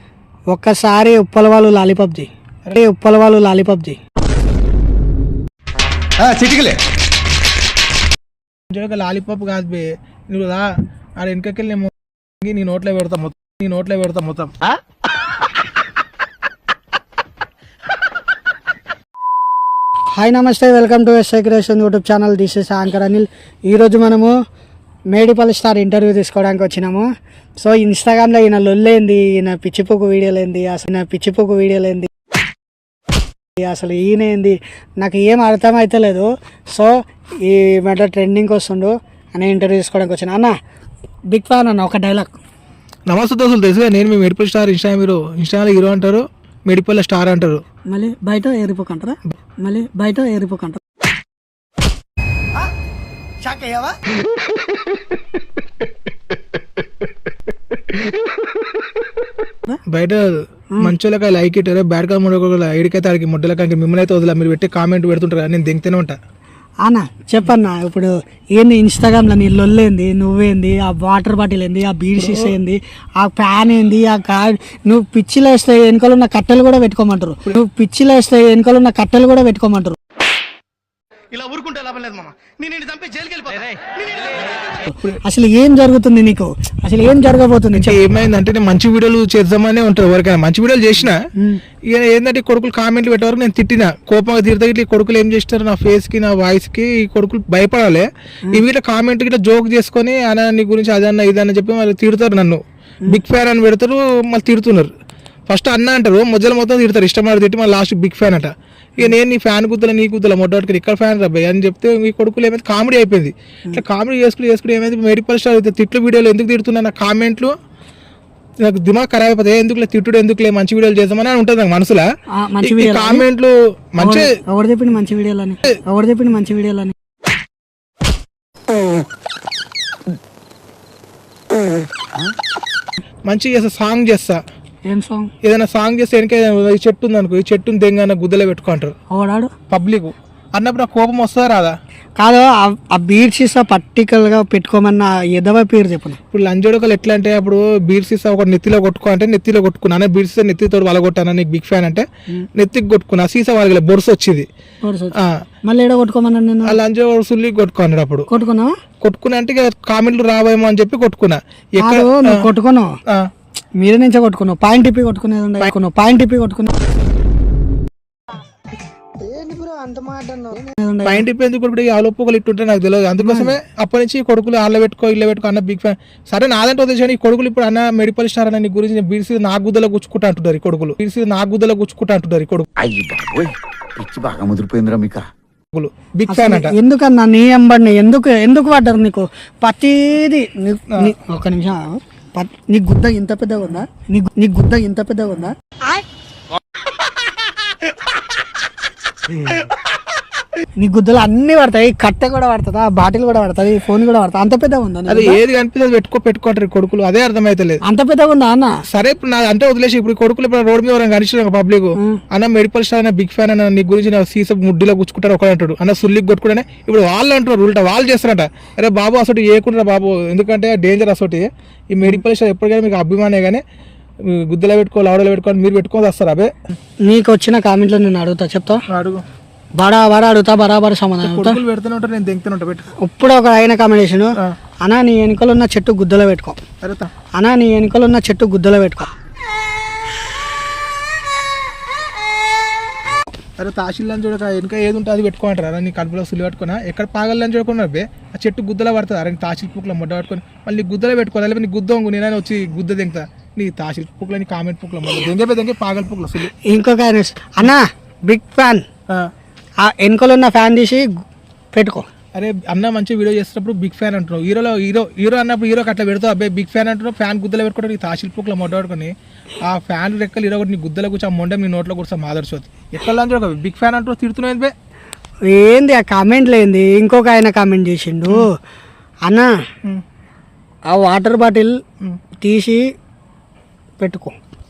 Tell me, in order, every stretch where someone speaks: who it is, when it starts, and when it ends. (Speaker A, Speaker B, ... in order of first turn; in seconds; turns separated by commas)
Speaker A: 0.5-4.0, Speaker B: 6.2-6.5, Speaker C: 6.4-6.7, Speaker B: 8.7-14.5, Speaker A: 20.1-24.3, Speaker A: 25.1-27.1, Speaker A: 27.6-32.1, Speaker A: 33.6-40.5, Speaker A: 41.3-42.4, Speaker B: 43.1-47.6, Speaker A: 47.9-50.8, Speaker A: 53.4-54.0, Speaker B: 59.9-66.2, Speaker A: 66.8-80.0, Speaker B: 72.2-72.5, Speaker C: 81.3-84.3, Speaker A: 85.2-88.0, Speaker B: 87.7-91.2, Speaker B: 91.9-104.9, Speaker B: 105.5-117.5, Speaker B: 118.6-122.0, Speaker A: 122.3-123.2, Speaker B: 122.6-124.3, Speaker A: 124.0-126.9, Speaker B: 133.2-134.4, Speaker A: 134.9-135.3, Speaker B: 135.4-138.9, Speaker A: 139.1-139.5, Speaker B: 139.7-141.7, Speaker A: 142.2-146.2, Speaker B: 146.3-154.5, Speaker A: 154.8-156.8, Speaker B: 155.2-155.4, Speaker B: 156.7-158.2, Speaker A: 158.3-158.7, Speaker B: 159.0-162.4, Speaker A: 161.8-162.9, Speaker A: 163.8-166.7, Speaker A: 169.2-171.2, Speaker B: 171.0-182.7, Speaker A: 173.2-173.6, Speaker D: 182.8-185.2, Speaker B: 185.7-186.8, Speaker A: 186.3-196.0, Speaker A: 199.4-199.6, Speaker A: 200.8-205.4, Speaker B: 205.1-207.8, Speaker A: 207.9-208.7, Speaker B: 208.9-223.6, Speaker B: 224.2-226.5, Speaker A: 227.1-228.8, Speaker B: 228.9-229.2, Speaker A: 229.8-231.6, Speaker B: 231.2-232.8, Speaker A: 233.0-236.6, Speaker B: 236.8-237.1, Speaker A: 237.3-239.1, Speaker B: 243.6-256.5, Speaker A: 256.6-258.8, Speaker A: 259.8-261.1, Speaker A: 261.7-262.1, Speaker B: 262.3-269.1, Speaker B: 269.6-274.7, Speaker A: 275.5-278.5, Speaker A: 280.9-281.7, Speaker A: 282.4-282.8, Speaker A: 284.0-284.4